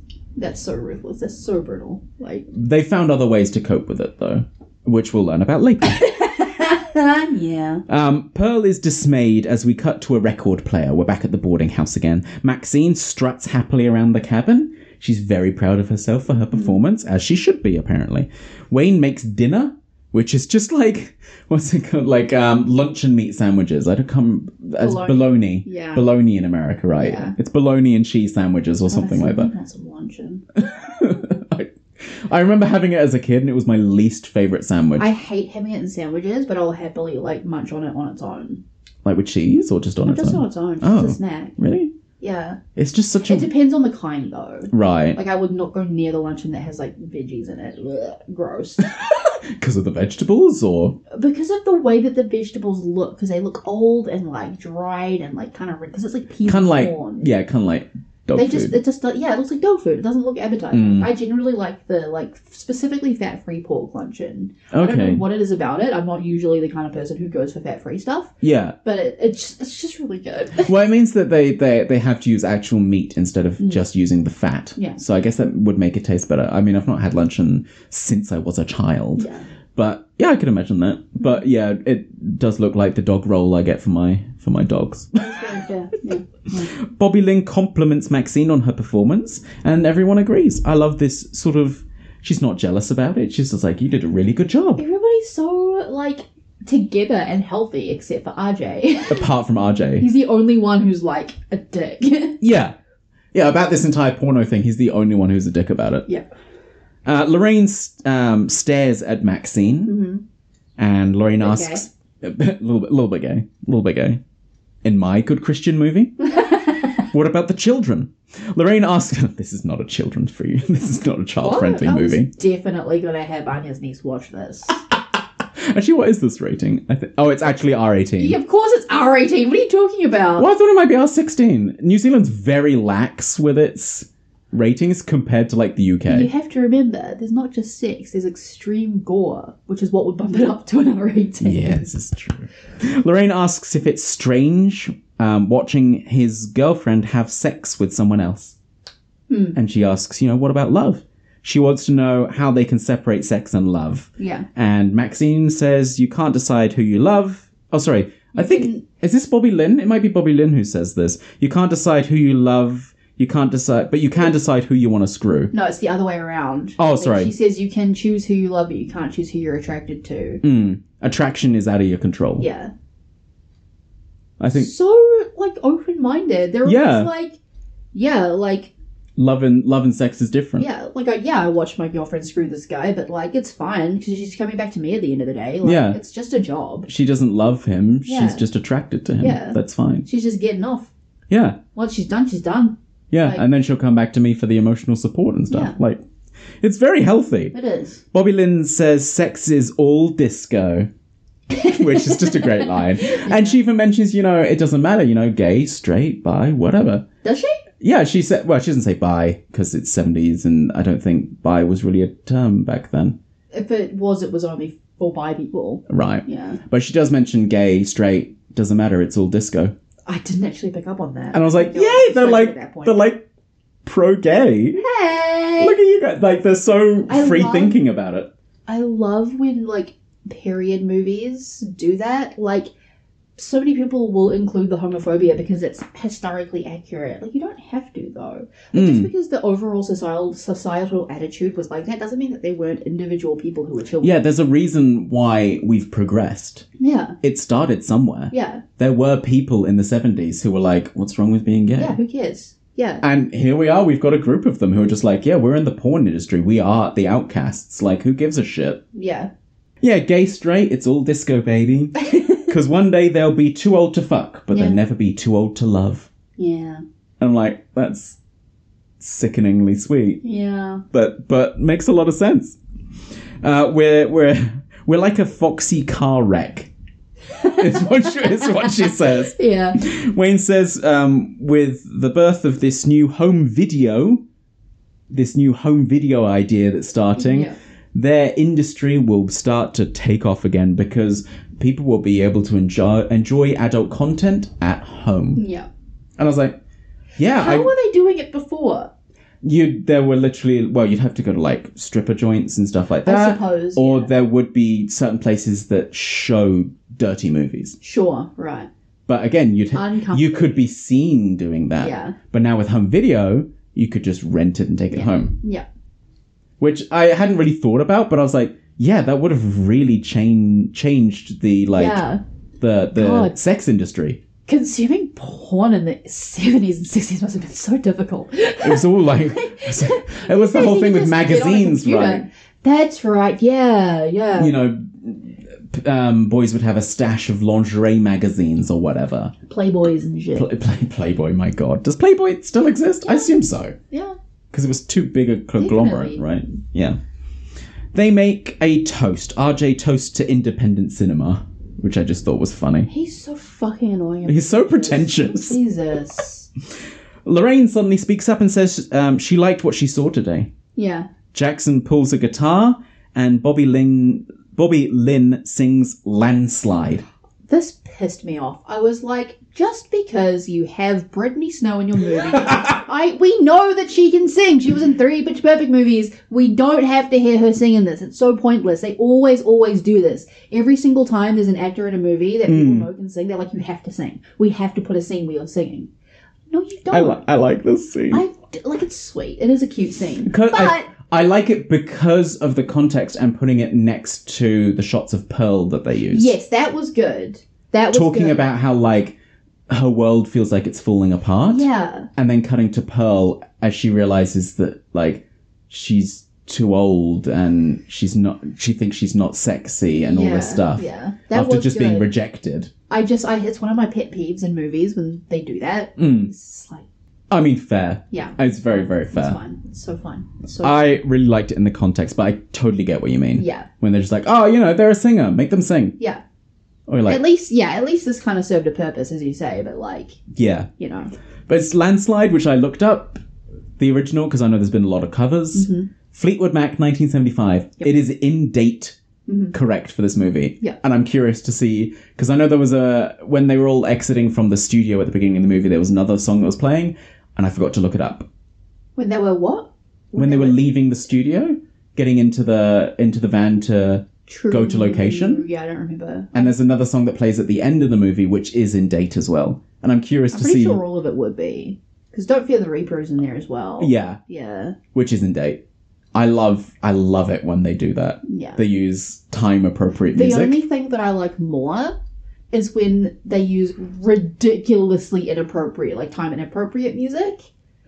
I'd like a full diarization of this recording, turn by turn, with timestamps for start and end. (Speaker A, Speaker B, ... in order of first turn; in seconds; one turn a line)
Speaker A: 0.3-2.5
Speaker B: 2.5-6.1
Speaker A: 5.8-7.8
Speaker B: 7.9-29.5
Speaker A: 16.5-16.8
Speaker A: 24.8-26.1
Speaker A: 27.0-27.3
Speaker A: 28.9-30.4
Speaker B: 30.6-35.1
Speaker A: 35.0-38.6
Speaker B: 39.0-41.9
Speaker A: 40.0-41.5
Speaker A: 42.2-42.6
Speaker B: 42.8-43.5
Speaker A: 43.2-48.9
Speaker B: 44.7-45.2
Speaker B: 48.8-51.0
Speaker A: 51.1-57.3
Speaker B: 56.4-58.8
Speaker A: 58.3-68.3
Speaker B: 60.7-61.1
Speaker B: 64.7-65.2
Speaker B: 68.4-68.8
Speaker A: 68.8-70.7
Speaker B: 70.6-85.5
Speaker A: 79.2-79.5
Speaker A: 85.2-86.7
Speaker B: 86.8-94.8
Speaker A: 94.8-99.3
Speaker B: 99.1-100.1
Speaker A: 100.0-102.4
Speaker B: 102.4-102.8
Speaker B: 103.3-106.0
Speaker B: 107.0-110.0
Speaker A: 109.8-110.2
Speaker B: 110.8-114.2
Speaker A: 111.4-111.8
Speaker B: 114.8-116.2
Speaker A: 116.3-116.7
Speaker B: 117.1-122.3
Speaker A: 121.4-124.8
Speaker B: 125.5-128.4
Speaker A: 128.2-130.5
Speaker B: 130.3-136.3
Speaker A: 136.1-141.9
Speaker B: 141.4-148.5
Speaker A: 149.3-149.6
Speaker B: 149.5-165.5
Speaker A: 154.2-154.4
Speaker A: 158.3-158.8
Speaker A: 165.5-170.4
Speaker B: 166.8-167.3
Speaker B: 170.4-172.5
Speaker A: 172.4-172.7
Speaker B: 174.4-174.7
Speaker A: 174.5-177.4
Speaker B: 176.6-177.1
Speaker A: 177.9-178.7
Speaker B: 179.2-180.7
Speaker A: 180.6-186.9
Speaker B: 185.6-186.0
Speaker B: 186.9-190.1
Speaker A: 188.1-188.4
Speaker A: 189.2-190.9
Speaker B: 191.3-191.6
Speaker A: 191.7-193.4
Speaker B: 193.1-196.0
Speaker A: 195.5-195.8
Speaker B: 196.6-197.5
Speaker A: 197.5-198.0
Speaker B: 198.1-200.9
Speaker A: 201.5-203.6
Speaker B: 201.6-207.0
Speaker A: 207.2-207.6
Speaker B: 207.8-213.2
Speaker A: 213.5-216.6
Speaker B: 215.9-219.7
Speaker A: 220.1-223.1
Speaker B: 221.3-223.2
Speaker B: 223.8-224.8
Speaker A: 224.8-225.8
Speaker B: 225.6-228.3
Speaker A: 227.1-227.8
Speaker A: 228.7-232.7
Speaker A: 233.4-244.1
Speaker B: 238.7-239.1
Speaker B: 244.0-246.7
Speaker A: 246.8-247.2
Speaker B: 247.2-252.0
Speaker A: 248.3-248.6
Speaker A: 251.7-253.0
Speaker B: 253.0-258.8
Speaker A: 258.9-259.3
Speaker B: 259.8-266.1
Speaker A: 262.0-262.5
Speaker A: 264.5-264.8
Speaker A: 266.4-266.8
Speaker B: 267.2-268.2
Speaker B: 269.0-270.2
Speaker A: 270.2-270.8
Speaker B: 270.9-272.6
Speaker B: 273.4-276.7
Speaker A: 277.4-279.8
Speaker B: 277.4-284.2
Speaker B: 285.1-295.4
Speaker A: 287.1-287.6
Speaker A: 295.3-295.7
Speaker B: 296.2-296.6
Speaker B: 297.2-297.7
Speaker A: 297.4-298.9
Speaker B: 299.4-307.8
Speaker A: 303.0-304.1
Speaker A: 307.8-308.7
Speaker B: 309.1-315.3
Speaker A: 309.7-310.5
Speaker A: 311.8-312.1
Speaker A: 314.9-315.6
Speaker B: 316.6-322.0
Speaker A: 321.7-322.2
Speaker B: 322.6-324.2
Speaker A: 322.9-323.4
Speaker A: 324.5-334.5
Speaker B: 328.6-332.2
Speaker B: 334.3-339.3
Speaker A: 339.5-340.5
Speaker B: 340.3-343.7
Speaker A: 343.0-344.1
Speaker B: 344.5-347.0
Speaker A: 345.6-346.2
Speaker B: 347.9-352.9
Speaker A: 352.9-356.5
Speaker B: 354.2-355.6
Speaker B: 357.2-360.5
Speaker A: 360.8-361.1
Speaker B: 361.3-367.0
Speaker A: 367.5-385.9
Speaker B: 382.5-382.9
Speaker A: 386.5-387.2
Speaker B: 386.9-388.2
Speaker A: 388.1-390.9
Speaker B: 390.2-396.3
Speaker A: 396.1-398.4
Speaker B: 397.9-399.1
Speaker B: 399.7-412.7
Speaker A: 401.5-402.1
Speaker A: 410.0-412.1
Speaker A: 412.9-416.9
Speaker B: 416.0-416.3
Speaker B: 417.3-419.4
Speaker A: 418.1-420.8
Speaker B: 420.6-426.0
Speaker A: 423.4-423.7
Speaker B: 426.9-427.2
Speaker A: 427.0-430.2
Speaker B: 430.3-430.7
Speaker A: 430.8-431.1
Speaker B: 431.5-433.2
Speaker B: 433.8-438.9
Speaker A: 435.5-435.9
Speaker A: 439.3-439.5
Speaker B: 439.5-448.3
Speaker A: 449.0-450.6
Speaker B: 450.1-455.4
Speaker A: 454.3-456.5
Speaker B: 456.3-460.8
Speaker A: 460.3-464.8
Speaker B: 463.8-464.2
Speaker B: 464.9-465.6
Speaker B: 466.1-470.6
Speaker A: 468.2-468.6
Speaker A: 470.1-471.9
Speaker A: 472.5-477.5